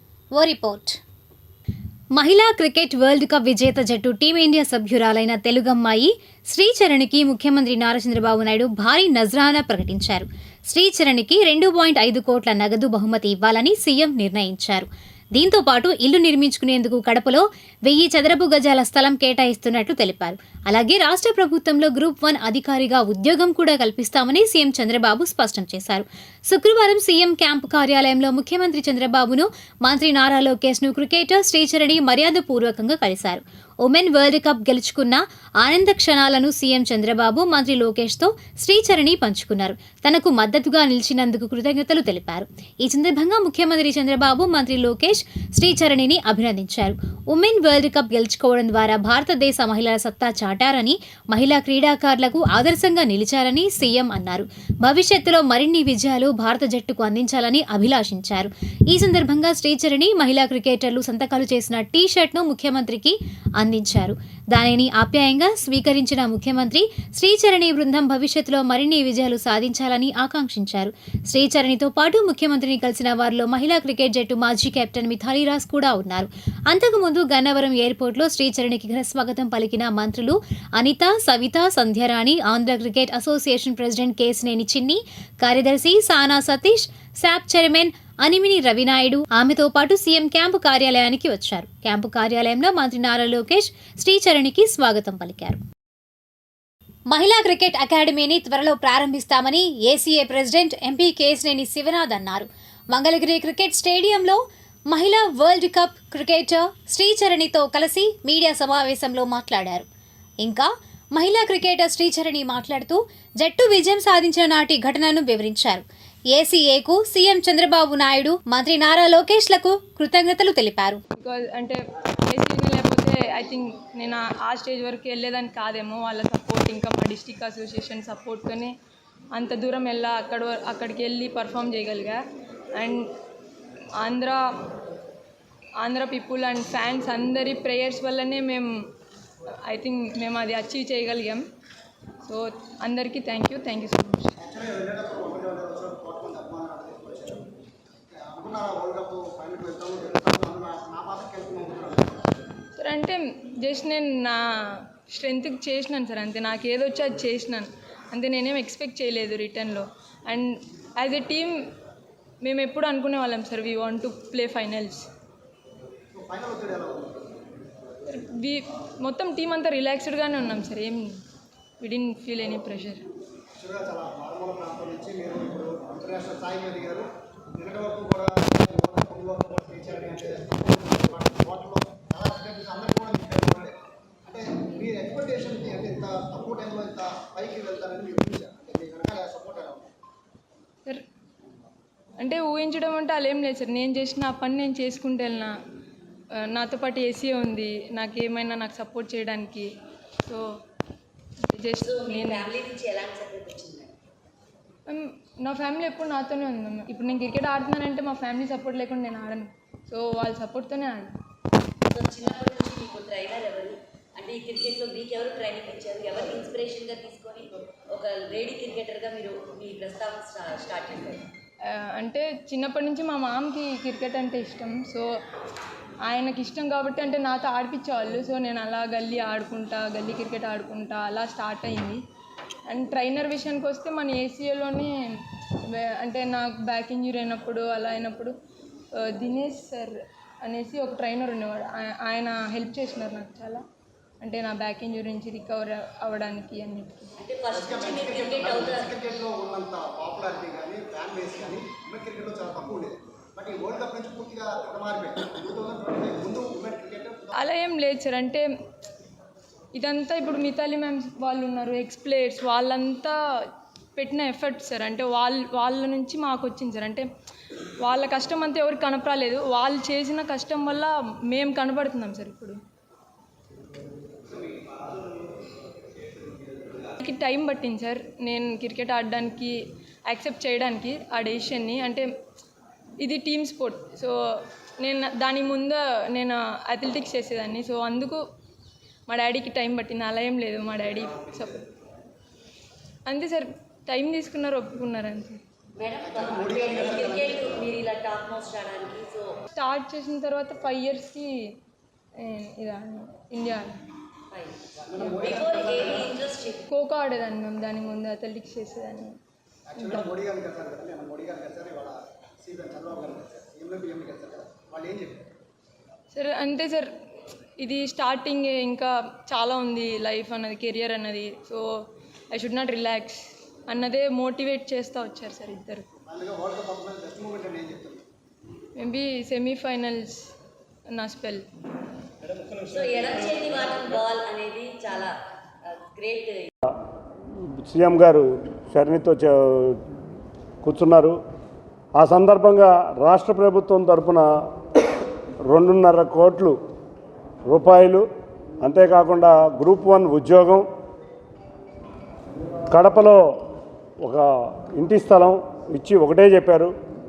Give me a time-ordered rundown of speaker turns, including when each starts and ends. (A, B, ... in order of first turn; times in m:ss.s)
0:00.3-0:01.0 A
0:02.2-1:35.6 A
1:37.1-1:49.8 A
1:50.4-2:01.0 A
2:01.2-2:08.8 B
2:09.3-2:12.2 B
2:12.7-2:13.1 B
2:14.0-2:14.5 B
2:15.8-2:18.8 B
2:19.6-2:21.5 B
2:22.2-2:24.3 B
2:24.4-2:27.4 C
2:28.2-2:32.3 C
2:32.8-2:41.6 B
2:42.4-2:45.1 B
2:46.1-2:47.3 C
2:48.1-2:51.2 B
2:51.8-2:53.0 B
2:53.6-3:09.9 C
3:12.2-3:15.6 B
3:16.4-3:19.7 B
3:21.5-3:22.5 B
3:21.8-3:23.9 D
3:24.9-3:31.2 B
3:31.9-3:41.3 D
3:41.7-3:45.1 B
3:46.0-3:52.0 B
3:52.7-3:58.4 B
3:59.0-4:03.6 B
4:04.2-4:07.1 B
4:07.2-4:09.0 D
4:07.5-4:17.3 C
4:17.4-4:18.5 B
4:19.7-4:23.1 B
4:24.0-4:27.1 B
4:27.8-4:32.6 B
4:36.9-4:42.1 B
4:43.0-4:48.2 B
4:49.1-4:51.6 B
4:53.0-4:55.4 B
4:55.8-4:59.3 D
4:56.0-4:57.7 C
4:59.5-5:01.3 B
5:02.2-5:03.8 B
5:04.3-5:06.6 D
5:04.8-5:06.2 C
5:06.6-5:09.2 B
5:09.7-5:15.3 C
5:09.8-5:10.0 B
5:16.1-5:16.9 B
5:17.6-5:25.9 B
5:26.0-5:28.0 C
5:28.8-5:30.2 B
5:30.9-5:31.4 B
5:32.5-5:35.1 D
5:35.7-5:36.5 D
5:37.6-5:39.8 E
5:40.6-5:41.2 E
5:42.0-5:44.3 E
5:45.5-5:46.6 E
5:47.5-5:48.0 E
5:48.6-5:50.6 E
5:52.7-5:53.2 E
5:54.0-5:56.7 E